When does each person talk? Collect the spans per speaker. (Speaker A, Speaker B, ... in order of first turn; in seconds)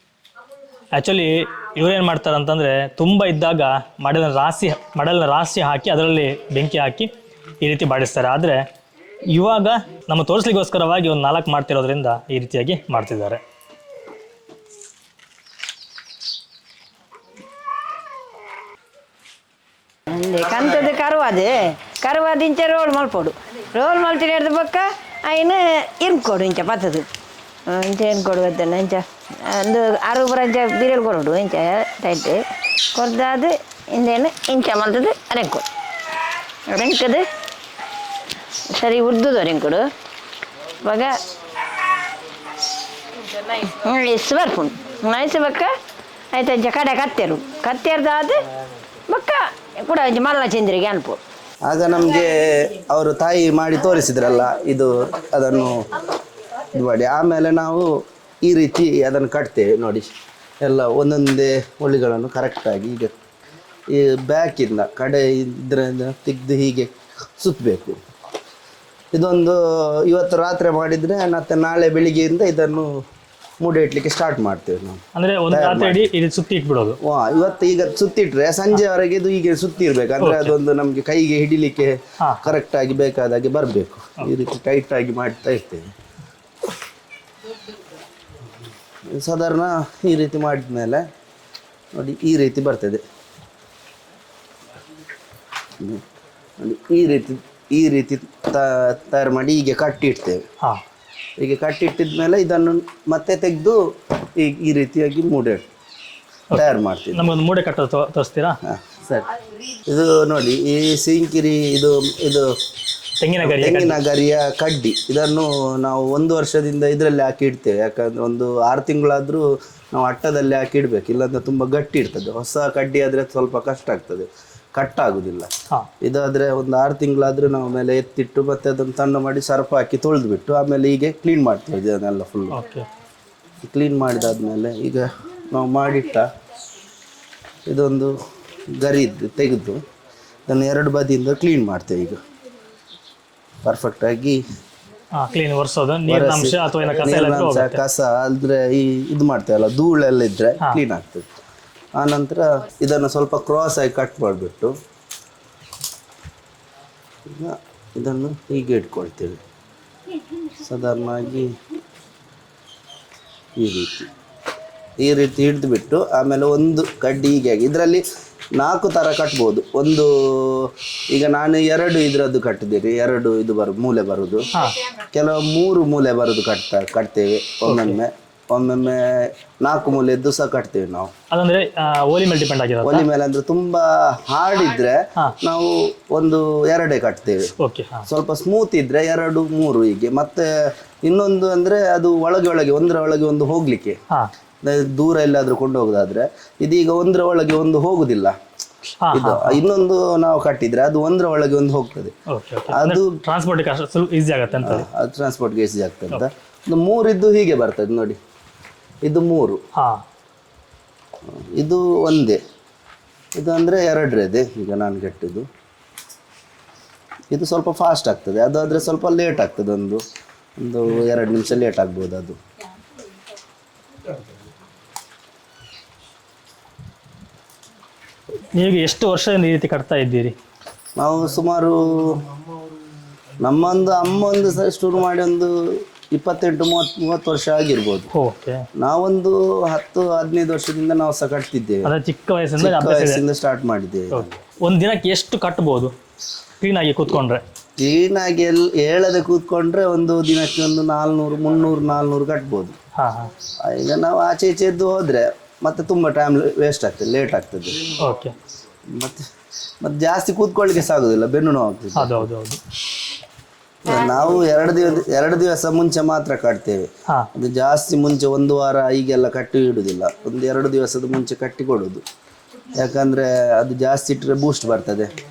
Speaker A: 0.9-8.6, 9.3-13.4, 75.2-77.0, 80.2-80.5, 82.2-82.5, 106.5-108.6, 113.2-114.0, 132.5-132.9, 145.1-147.8, 174.5-174.8, 177.7-178.0, 181.3-183.1, 187.6-188.1, 199.0-199.6, 202.3-204.9, 209.8-210.0, 228.5-230.3, 238.1-238.7, 241.8-243.2, 244.1-245.9, 246.6-247.4, 252.9-253.3, 258.0-258.4, 261.9-262.6
Speaker B: 20.1-27.1, 27.7-32.4, 32.9-35.7, 36.7-37.3, 38.7-39.9, 40.8-41.2, 43.5-45.7, 46.3-48.4, 49.1-51.2
Speaker C: 51.6-55.9, 56.7-60.1, 60.6-63.1, 63.9-68.0, 69.1-72.9, 73.6-76.1, 77.0-85.9, 89.1-91.0, 91.9-93.0, 96.6-100.4, 101.4-103.8, 104.4-105.7, 106.5-107.3, 108.6-109.3, 109.9-112.5, 113.4-125.5, 126.0-132.6, 133.6-136.3, 137.7-138.2, 138.7-139.8, 140.5-142.2, 143.6-144.4, 146.1-151.3, 152.0-154.7, 157.3-159.4, 160.5-161.6, 163.6-164.1, 165.0-168.0, 168.6-174.5, 175.1-181.1, 182.8-187.5, 188.1-190.5, 191.0-193.9, 194.6-198.3, 199.1-202.1, 202.7-203.2, 204.6-208.2, 209.0-209.6, 211.3-212.4, 213.4-215.5, 217.3-220.0, 220.6-222.4, 231.0-232.3, 233.4-238.1, 238.8-241.9, 242.6-244.3, 247.8-252.8, 253.6-257.9, 258.9-259.2, 259.8-262.3, 263.8-272.0, 272.7-275.1